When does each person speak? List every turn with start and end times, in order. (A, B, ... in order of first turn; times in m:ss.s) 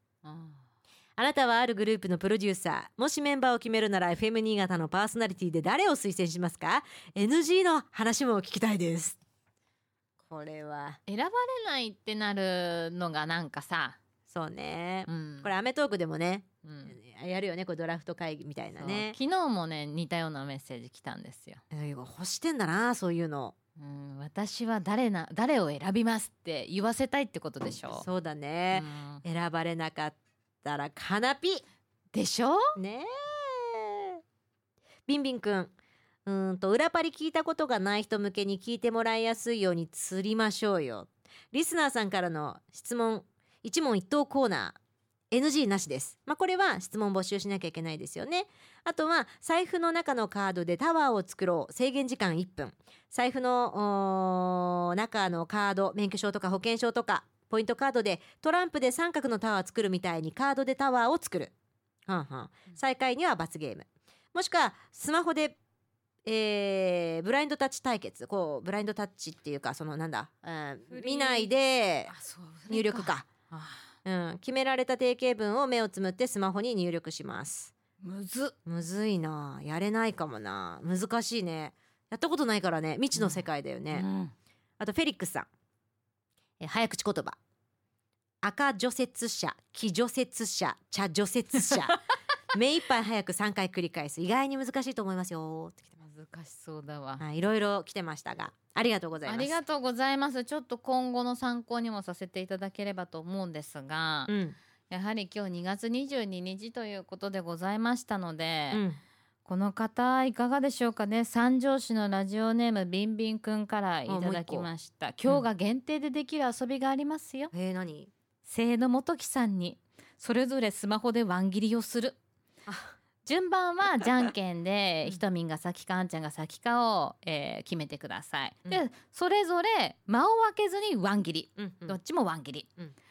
0:00.2-0:00.6 A
0:01.2-0:09.2 B
0:10.2-0:11.0 B
0:11.1-0:14.0 A
0:14.3-0:19.2 B
0:15.1-0:15.5 A
0:16.6-0:17.0 A
0:18.8-0:21.6 A
0:21.7-0:23.6 B
0:23.8-0:28.0 A
0:27.9-0:31.6 B
0:28.7-0:29.2 A
0:32.1-0:32.7 A
0:32.8-0:34.2 B
0:35.1-0:35.7 B
0:36.3-0:44.8 B
0:45.3-1:01.5 B
1:02.1-1:05.6 B
1:06.2-1:12.1 B
1:10.9-1:11.5 A
1:12.1-1:13.9 A
1:12.7-1:13.3 B
1:14.0-1:17.7 B
1:18.0-1:18.6 A
1:18.6-1:24.1 B
1:23.2-1:24.3 A
1:24.8-1:25.5 B
1:26.6-1:27.4 B
1:28.4-1:32.0 B
1:32.5-1:35.9 B
1:36.0-1:37.2 A
1:37.2-1:39.6 B
1:39.2-1:44.3 A
1:44.3-1:44.6 B
1:44.9-1:48.8 A
1:48.7-1:49.0 B
1:49.4-1:57.5 A
1:54.1-1:54.7 B
1:57.5-1:58.1 B
1:58.4-2:02.2 A
2:02.7-2:03.0 B
2:03.2-2:12.7 A
2:11.6-2:12.0 B